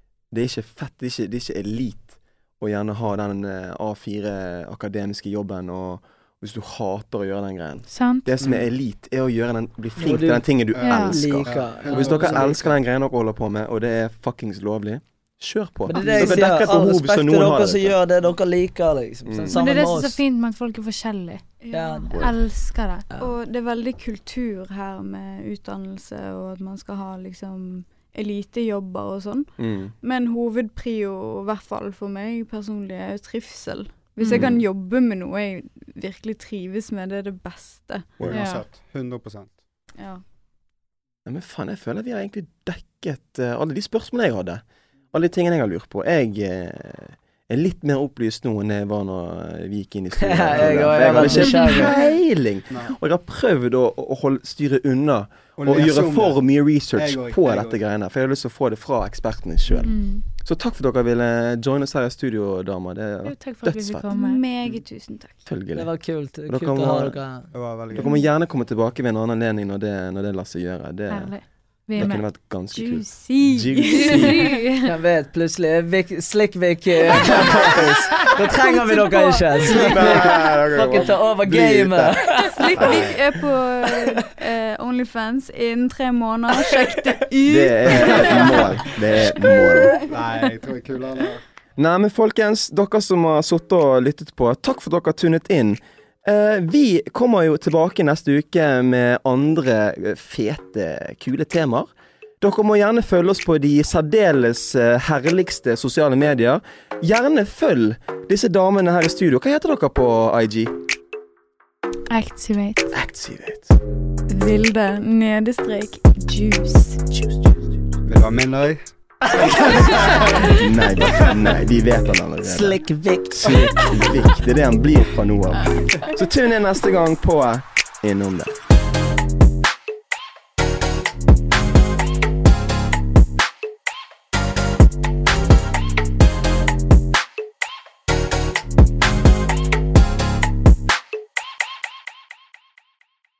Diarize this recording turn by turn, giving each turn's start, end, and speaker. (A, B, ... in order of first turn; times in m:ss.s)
0:00.3-0:18.0 A
0:07.9-0:08.3 B
0:08.4-0:08.7 C
0:10.0-0:12.7 D
0:10.7-0:12.8 C
0:10.8-0:11.2 B
0:15.9-0:20.2 D
0:19.3-0:19.6 A
0:19.5-0:21.4 B
0:21.6-0:22.1 E
0:21.7-0:22.1 D
0:22.1-0:23.0 B
0:23.1-0:23.4 D
0:23.2-0:38.1 E
0:29.6-0:30.0 A
0:34.2-0:34.5 B
0:34.3-0:34.6 A
0:38.2-0:39.6 C
0:38.3-0:38.6 B
0:41.2-1:04.1 A
0:50.1-0:51.9 D
0:50.6-0:51.4 C
0:51.3-0:52.0 B
0:52.7-0:52.9 C
0:55.6-0:57.8 C
0:59.8-1:00.2 B
1:03.2-1:04.4 B
1:04.1-1:05.4 E
1:05.4-1:05.9 A
1:05.7-1:07.5 D
1:06.5-1:07.2 A
1:07.5-1:08.1 C
1:07.9-1:11.3 A
1:08.0-1:08.2 E
1:11.1-1:12.2 B
1:11.9-1:14.3 A
1:12.7-1:14.6 E
1:13.9-1:14.9 B
1:14.8-1:22.9 D
1:17.2-1:18.3 A
1:18.6-1:20.2 B
1:19.8-1:23.2 A
1:22.5-1:22.9 B
1:22.5-1:30.0 E
1:27.4-1:30.0 A
1:30.1-1:31.4 C
1:31.8-1:41.9 A
1:42.4-1:50.7 A
1:52.1-1:52.9 B
1:52.9-1:53.7 A
1:54.3-1:57.6 E
1:58.0-1:58.8 C
1:59.3-2:08.5 A
2:02.4-2:04.2 D
2:05.7-2:06.1 E